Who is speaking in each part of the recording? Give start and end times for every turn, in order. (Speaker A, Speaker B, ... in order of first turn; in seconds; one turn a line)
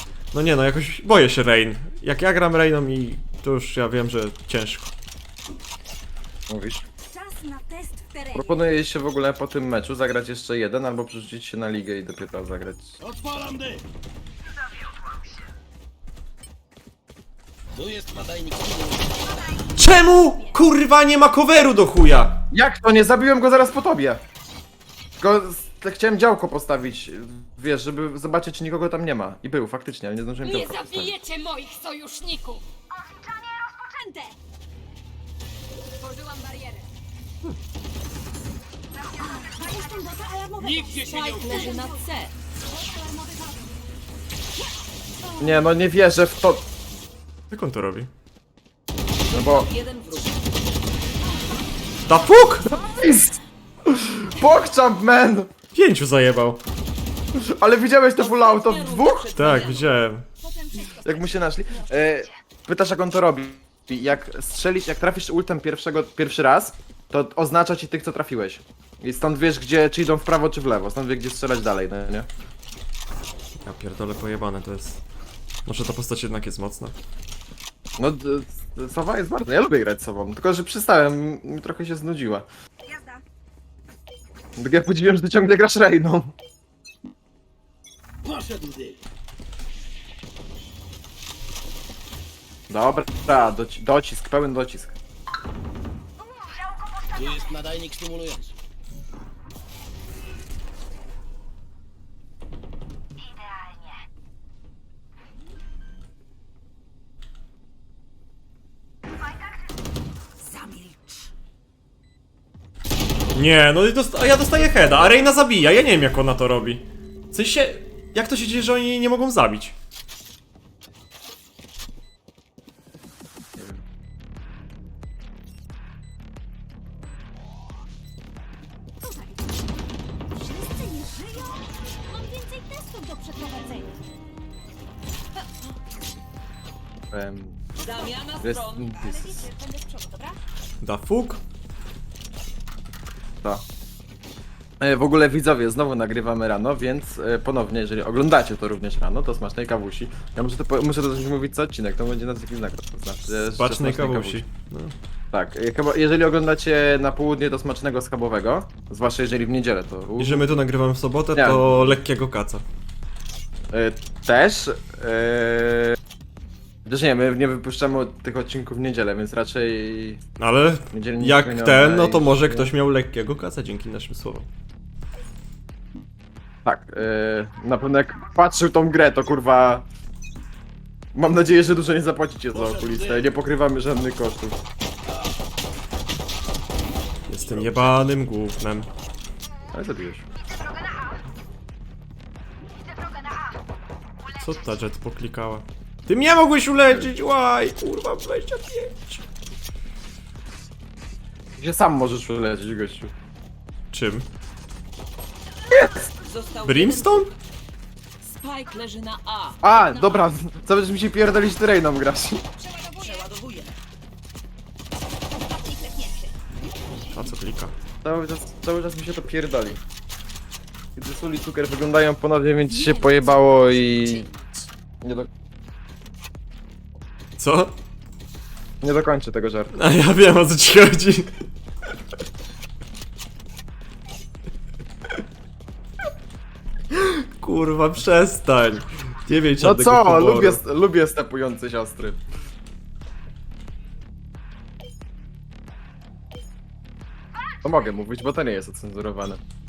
Speaker A: 0.3-4.9
Speaker B: 6.5-6.8
Speaker C: 7.1-8.6
Speaker B: 8.3-13.0
Speaker D: 13.0-13.8
Speaker D: 17.7-19.2
Speaker A: 19.8-22.4
Speaker B: 22.5-24.2
Speaker B: 25.2-31.2
Speaker C: 30.4-34.4
Speaker C: 36.0-36.9
Speaker C: 39.1-42.1
Speaker E: 40.8-42.3
Speaker C: 42.6-43.9
Speaker C: 45.2-45.7
Speaker B: 45.4-46.7
Speaker A: 47.5-48.1
Speaker E: 49.2-50.5
Speaker B: 49.3-49.7
Speaker C: 51.2-51.6
Speaker A: 52.1-52.7
Speaker B: 52.7-55.5
Speaker C: 52.7-53.1
Speaker A: 55.7-56.6
Speaker B: 57.3-59.3
Speaker E: 58.2-59.9
Speaker A: 59.3-60.2
Speaker C: 60.4-61.9
Speaker B: 61.0-72.3
Speaker A: 73.6-75.0
Speaker A: 75.6-76.9
Speaker B: 78.0-82.5
Speaker C: 82.8-83.2
Speaker B: 84.6-86.3
Speaker D: 88.2-89.0
Speaker B: 92.7-95.0
Speaker D: 97.1-98.5
Speaker E: 110.4-111.3
Speaker A: 113.3-119.7
Speaker B: 123.5-123.8
Speaker C: 129.0-134.0
Speaker C: 135.4-135.7
Speaker B: 137.1-137.6
Speaker E: 137.8-138.9
Speaker B: 138.4-139.5
Speaker C: 138.9-140.4
Speaker A: 140.8-141.4
Speaker B: 144.8-154.4
Speaker A: 153.3-154.9
Speaker B: 155.3-160.5
Speaker A: 160.2-162.6
Speaker B: 161.3-162.0
Speaker B: 163.7-166.0
Speaker B: 166.8-170.2
Speaker A: 170.4-174.5
Speaker B: 170.9-172.7
Speaker B: 176.6-179.8
Speaker B: 181.1-184.6
Speaker D: 182.5-183.3
Speaker A: 187.3-188.9
Speaker B: 187.5-187.8
Speaker B: 189.7-190.3
Speaker A: 194.4-199.2
Speaker B: 201.6-203.1
Speaker A: 203.9-204.2
Speaker B: 205.7-206.1
Speaker E: 206.2-207.4
Speaker A: 206.6-207.3
Speaker E: 208.2-209.6
Speaker B: 209.6-212.4
Speaker C: 209.7-210.2
Speaker C: 212.6-213.3
Speaker E: 213.0-213.7
Speaker C: 215.3-216.4
Speaker A: 217.1-217.7
Speaker B: 218.0-219.8
Speaker B: 220.9-224.2
Speaker E: 222.7-224.6
Speaker B: 225.0-225.3
Speaker A: 227.4-227.8
Speaker B: 228.8-229.7
Speaker A: 229.7-231.5
Speaker A: 236.9-240.6
Speaker B: 239.6-242.2
Speaker B: 247.6-249.4